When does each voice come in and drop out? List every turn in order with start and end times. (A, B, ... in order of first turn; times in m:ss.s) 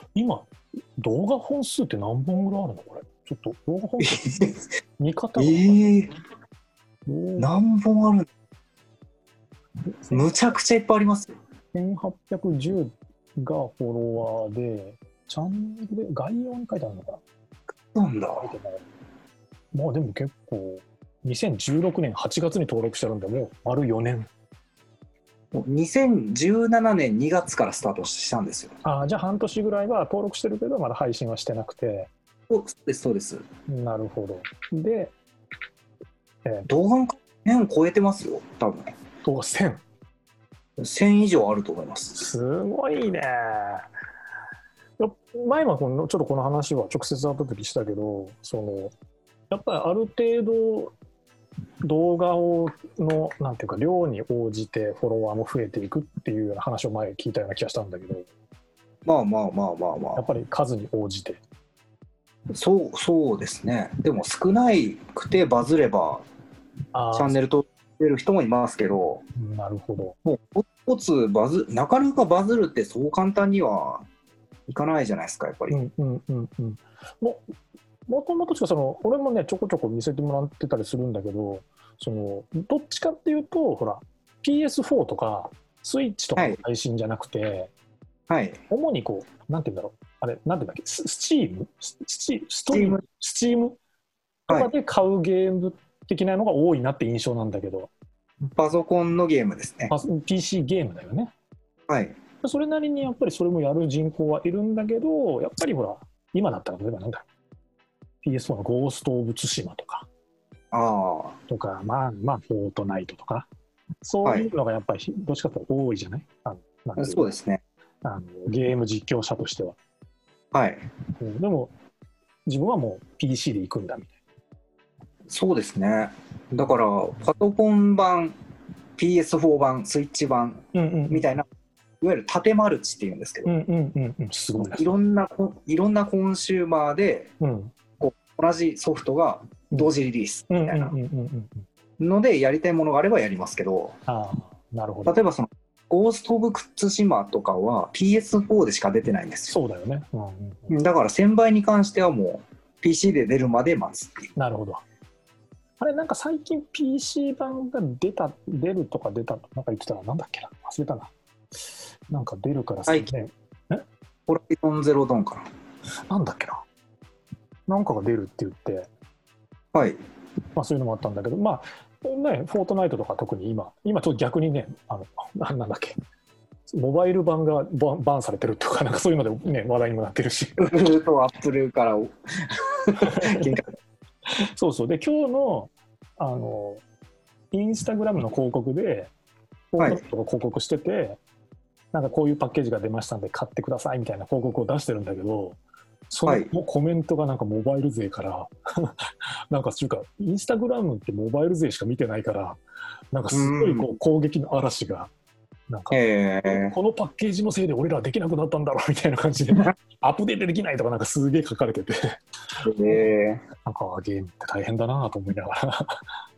0:00.1-0:04.3 A
0:04.0-0:04.7 B
0:05.0-0:06.0 A
0:05.4-0:06.1 B
0:07.0-0:07.5 A
0:07.4-0:08.3 B
0:10.0-0:10.4 A
0:10.1-0:11.4 B
0:11.7-0:17.2 A
0:17.9-0:18.5 B
0:18.4-0:18.8 A
0:19.7-0:24.3 A
0:25.5-0:28.7 B
0:28.8-0:32.1 A
0:32.5-0:33.5 B
0:33.7-0:35.1 A
0:36.7-0:38.9 B
0:39.2-0:39.8 A
0:40.8-0:42.2 B
0:42.1-0:43.8 A
0:45.0-0:48.9 A
0:49.5-0:50.9 A
0:51.8-0:58.2 A
0:59.0-1:00.2 B
1:00.1-1:01.4 A
1:02.5-1:06.2 B
1:06.9-1:07.4 A
1:07.1-1:09.2 B
1:09.3-1:10.2 A
1:10.2-1:14.0 B
1:14.7-1:15.8 B
1:15.7-1:17.4 A
1:18.1-1:27.7 A
1:28.3-1:28.6 B
1:28.7-1:33.8 A
1:32.7-1:33.0 B
1:34.5-1:37.9 A
1:38.4-1:39.9 B
1:39.9-1:41.3 A
1:41.9-1:42.2 B
1:42.4-1:47.2 A
1:48.2-1:50.1 A
1:50.7-1:51.4 B
1:51.5-1:53.5 A
1:54.0-1:57.3 A
1:57.0-1:57.6 B
1:58.0-1:59.8 A
2:00.5-2:00.9 B
2:01.2-2:01.7 A
2:02.5-2:04.1 A
2:05.3-2:08.4 B
2:09.0-2:11.5 B
2:10.7-2:11.3 A
2:12.0-2:13.5 B
2:13.4-2:14.9 A
2:14.6-2:17.3 B
2:17.4-2:17.7 A
2:18.0-2:20.9 B
2:20.5-2:21.6 A
2:22.0-2:24.0 B
2:24.1-2:25.2 A
2:25.0-2:29.6 B
2:29.5-2:30.8 A
2:30.7-2:34.3 B
2:34.4-2:34.8 A
2:35.8-2:41.1 A
2:42.1-2:43.8 A
2:44.3-2:45.5 B
2:46.1-2:46.6 A
2:47.7-2:48.9 A
2:49.7-2:50.0 B
2:50.5-2:56.0 A
2:56.7-3:00.8 A
3:00.6-3:03.6 B
3:03.0-3:03.6 A
3:04.3-3:06.8 A
3:07.5-3:09.1 A
3:09.7-3:11.2 A
3:11.9-3:15.6 A
3:16.1-3:22.6 A
3:16.2-3:16.5 B
3:23.1-3:25.1 A
3:23.3-3:23.9 B
3:25.7-3:33.1 A
3:25.9-3:26.8 B
3:32.6-3:33.4 B
3:33.6-3:36.0 A